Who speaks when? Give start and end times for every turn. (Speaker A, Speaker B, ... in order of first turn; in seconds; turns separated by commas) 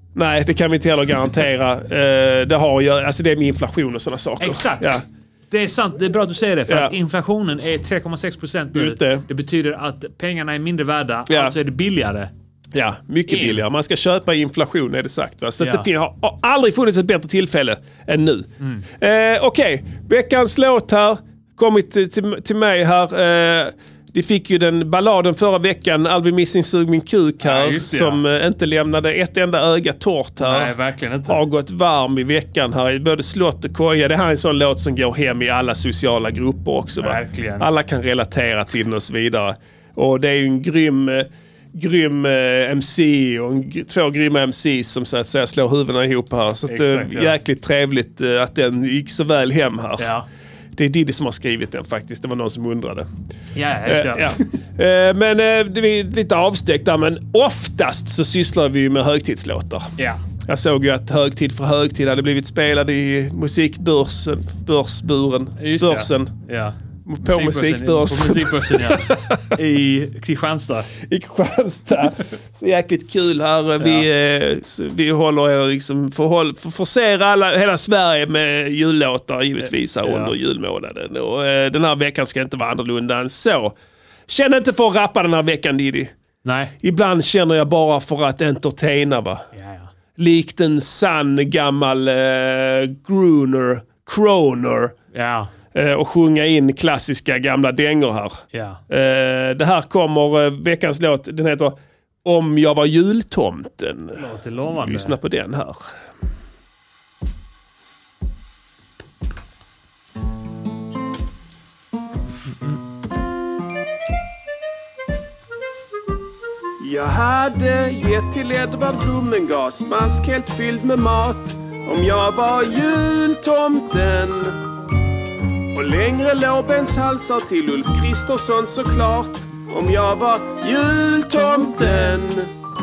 Speaker A: 0.1-5.0, Speaker B: 4.4-4.9, Speaker B: 5.5-12.3, Speaker A: 6.7-6.9, Speaker A: 8.7-9.3, Speaker A: 11.3-11.5, Speaker A: 12.7-30.7, Speaker B: 13.3-13.6, Speaker B: 15.6-15.9, Speaker B: 18.6-18.9, Speaker B: 27.4-28.2, Speaker B: 30.4-31.4, Speaker A: 31.3-50.1, Speaker B: 37.0-37.7, Speaker B: 46.7-47.4, Speaker B: 50.0-50.3, Speaker A: 50.8-53.1, Speaker B: 53.5-54.4, Speaker A: 53.9-59.9, Speaker A: 60.5-66.3, Speaker B: 65.6-70.9, Speaker A: 67.1-69.4, Speaker A: 71.0-83.8, Speaker B: 73.8-74.1, Speaker B: 79.6-80.3, Speaker A: 84.3-86.1, Speaker B: 86.4-86.8, Speaker A: 86.8-89.5, Speaker B: 89.5-89.9, Speaker A: 90.2-95.0, Speaker B: 95.1-95.5, Speaker A: 95.7-105.8, Speaker B: 98.5-98.8, Speaker B: 104.1-105.2, Speaker C: 116.8-124.6, Speaker C: 125.7-132.5, Speaker B: 131.7-132.2